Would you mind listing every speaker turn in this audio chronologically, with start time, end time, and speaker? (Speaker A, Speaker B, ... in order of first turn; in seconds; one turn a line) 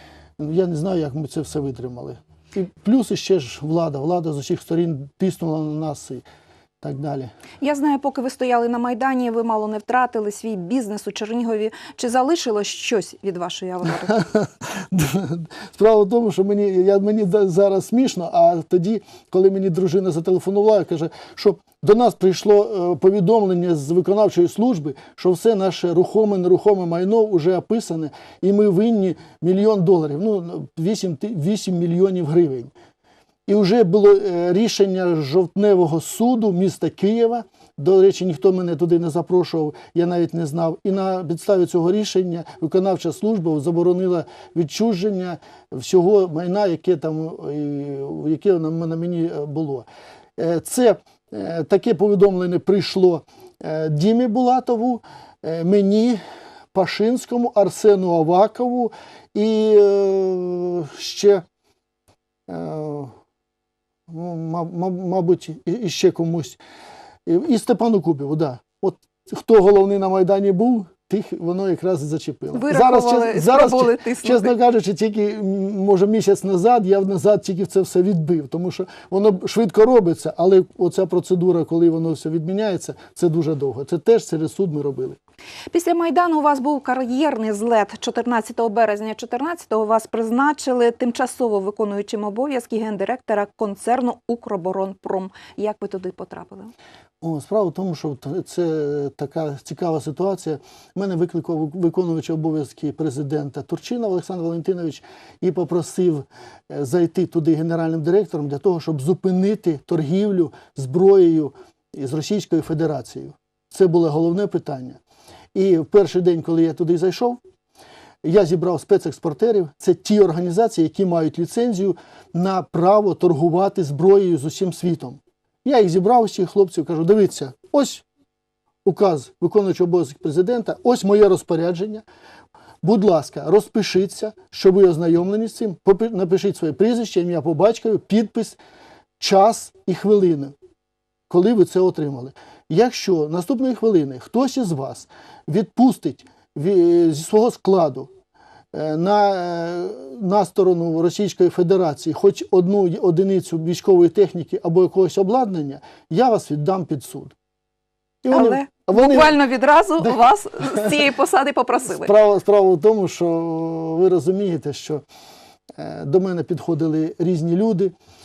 Speaker A: 0.4-6.2
Speaker A: 6.8-7.3
Speaker B: 7.6-14.1
Speaker A: 14.1-32.7
Speaker A: 33.5-56.2
Speaker A: 56.7-61.4
Speaker A: 62.5-63.1
Speaker A: 64.1-66.6
Speaker A: 67.2-85.2
Speaker B: 72.5-74.5
Speaker B: 85.7-96.7
Speaker A: 97.2-115.0
Speaker A: 115.5-117.4
Speaker A: 118.2-128.0
Speaker A: 128.8-132.0
Speaker A: 132.8-138.6
Speaker A: 139.2-140.5
Speaker A: 141.3-148.1
Speaker A: 148.7-157.3
Speaker A: 158.2-159.4
Speaker B: 158.3-162.1
Speaker A: 160.0-160.9
Speaker A: 161.8-165.0
Speaker A: 165.8-167.9